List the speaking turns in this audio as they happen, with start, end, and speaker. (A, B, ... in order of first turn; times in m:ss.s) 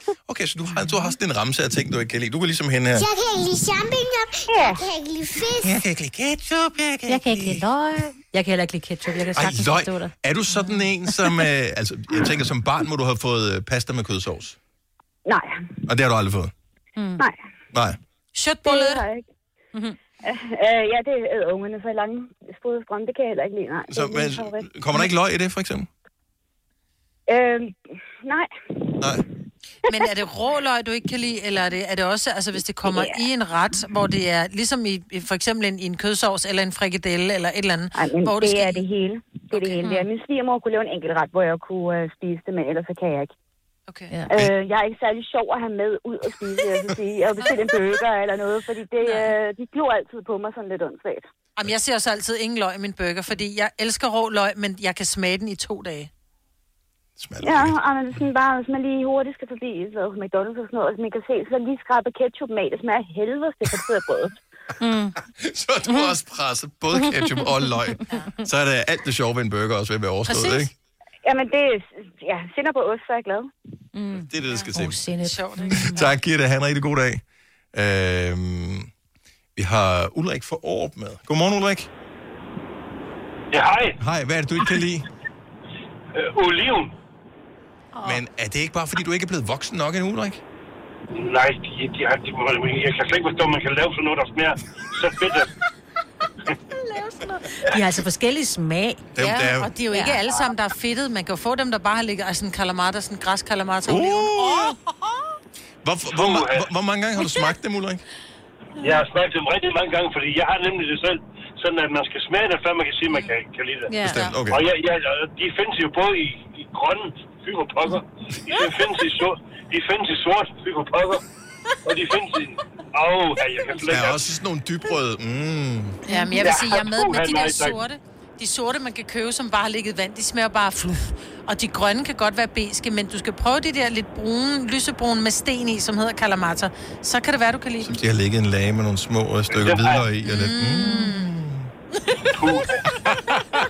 0:00.3-0:03.1 A
0:03.0-0:05.8 B
0:05.6-0:07.7 A
0:07.1-0:10.1 C
0:09.3-0:14.6 A
0:15.3-0:15.8 D
0:15.9-0:16.5 A
0:17.0-0:17.2 C
0:17.7-0:18.0 A
0:18.3-0:19.0 E
0:18.6-0:19.3 D
0:20.2-0:24.7 D
0:23.9-0:25.9 A
0:27.3-0:28.9 D
0:29.8-0:38.8 E
0:32.8-0:33.2 D
0:37.9-0:43.3 D
0:39.5-0:39.9 E
0:43.9-0:44.2 E
0:44.3-0:51.3 D
0:51.6-0:56.1 E
0:57.2-0:57.8 A
0:57.4-1:04.4 D
1:04.8-1:05.2 C
1:05.4-1:10.7 A
1:05.8-1:06.2 C
1:06.9-1:07.9 C
1:10.3-1:10.7 E
1:11.2-1:13.5 D
1:13.9-1:16.0 C
1:14.1-1:15.0 A
1:15.2-1:16.2 E
1:15.8-1:17.2 A
1:17.7-1:18.9 A
1:19.6-1:21.9 A
1:23.5-1:24.0 F
1:24.0-1:25.1 A
1:26.2-1:26.9 F
1:28.0-1:30.4 A
1:31.1-1:35.5 F
1:37.0-1:39.1 C
1:39.2-1:39.7 A
1:39.2-1:44.5 E
1:39.9-1:40.4 C
1:43.9-1:44.8 A
1:45.8-1:48.0 A
1:46.1-1:46.7 F
1:48.8-2:01.2 F
1:53.9-1:54.3 C
1:54.0-1:54.6 A
2:01.8-2:04.2 F
2:03.9-2:06.0 A
2:06.1-2:06.6 C
2:06.1-2:18.0 E
2:06.4-2:07.8 F
2:17.8-2:21.7 A
2:19.5-2:20.1 F
2:20.3-2:21.4 E
2:20.8-2:21.2 C
2:22.3-2:22.8 F